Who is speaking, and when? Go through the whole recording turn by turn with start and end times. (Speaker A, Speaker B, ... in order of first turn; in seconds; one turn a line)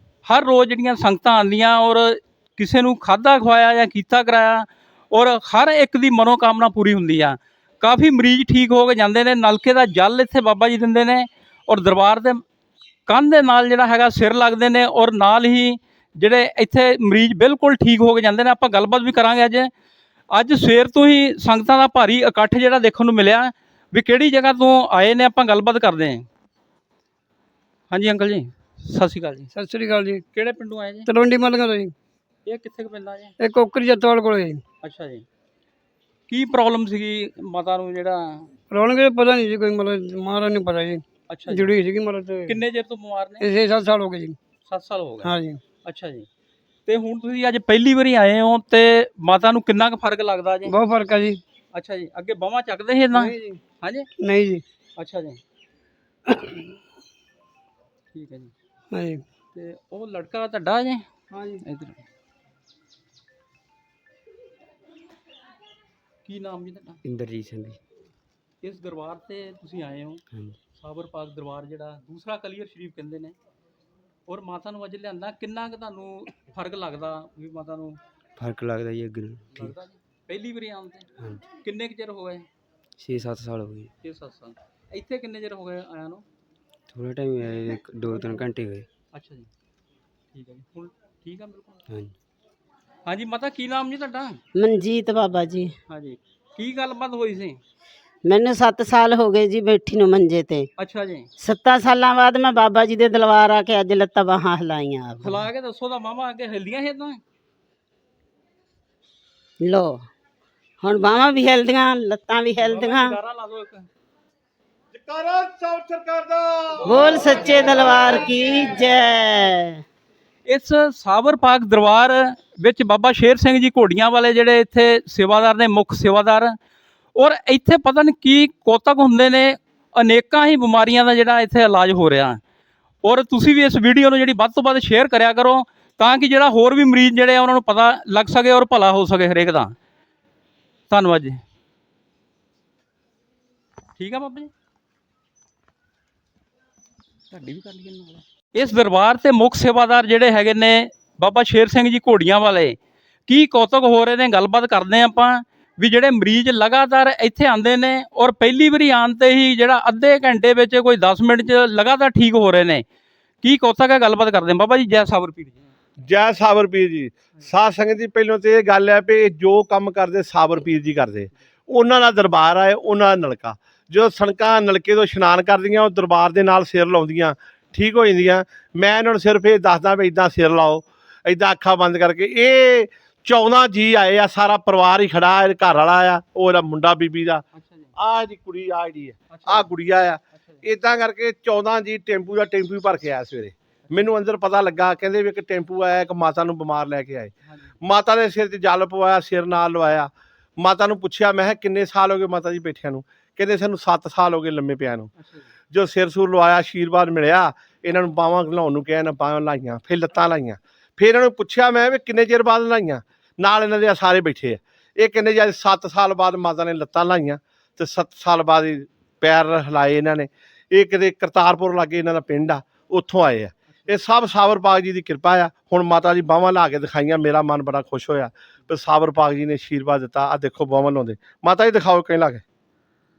Speaker A: 0.2-12.4
Speaker A: 13.1-19.7
Speaker A: 20.3-26.2
Speaker A: 27.9-29.5
Speaker B: 29.5-30.2
Speaker A: 30.3-31.1
Speaker B: 31.1-31.9
Speaker A: 32.5-33.3
Speaker B: 33.4-34.6
Speaker A: 34.8-35.2
Speaker A: 36.3-38.5
Speaker B: 38.7-42.6
Speaker A: 41.3-41.7
Speaker A: 42.5-43.5
Speaker B: 43.4-44.4
Speaker A: 44.6-46.3
Speaker B: 45.2-45.6
Speaker A: 46.9-50.7
Speaker B: 50.7-51.4
Speaker A: 51.7-54.1
Speaker B: 53.1-53.6
Speaker B: 54.2-54.6
Speaker A: 55.0-55.4
Speaker B: 56.3-56.6
Speaker A: 58.1-58.5
Speaker B: 58.9-59.2
Speaker A: 59.5-61.0
Speaker B: 61.3-61.6
Speaker A: 61.6-62.0
Speaker A: 66.2-67.0
Speaker C: 67.0-67.8
Speaker A: 68.6-70.2
Speaker C: 70.3-70.6
Speaker A: 70.7-73.3
Speaker A: 74.3-78.0
Speaker C: 78.4-79.7
Speaker A: 79.5-81.1
Speaker C: 81.2-81.4
Speaker A: 81.6-82.5
Speaker C: 83.0-83.9
Speaker A: 84.0-86.2
Speaker C: 86.9-88.9
Speaker A: 89.1-89.5
Speaker A: 90.3-91.8
Speaker C: 91.9-92.1
Speaker A: 93.0-94.4
Speaker D: 94.5-95.7
Speaker A: 95.9-97.6
Speaker D: 98.2-100.7
Speaker A: 100.8-101.3
Speaker D: 101.4-105.5
Speaker A: 105.2-107.2
Speaker D: 109.6-110.0
Speaker D: 110.8-113.2
Speaker A: 112.6-113.9
Speaker E: 114.9-117.2
Speaker D: 116.8-119.8
Speaker A: 120.5-126.5
Speaker A: 127.2-132.4
Speaker A: 133.0-139.7
Speaker A: 140.9-141.4
Speaker A: 144.0-144.5
Speaker A: 147.3-162.8
Speaker A: 163.4-165.7
Speaker E: 166.0-187.4
Speaker A: 187.5-187.9
Speaker E: 187.9-205.1
Speaker A: 189.3-189.7
Speaker A: 190.3-190.6
Speaker A: 197.4-197.7
Speaker A: 205.2-205.5
Speaker E: 205.7-232.4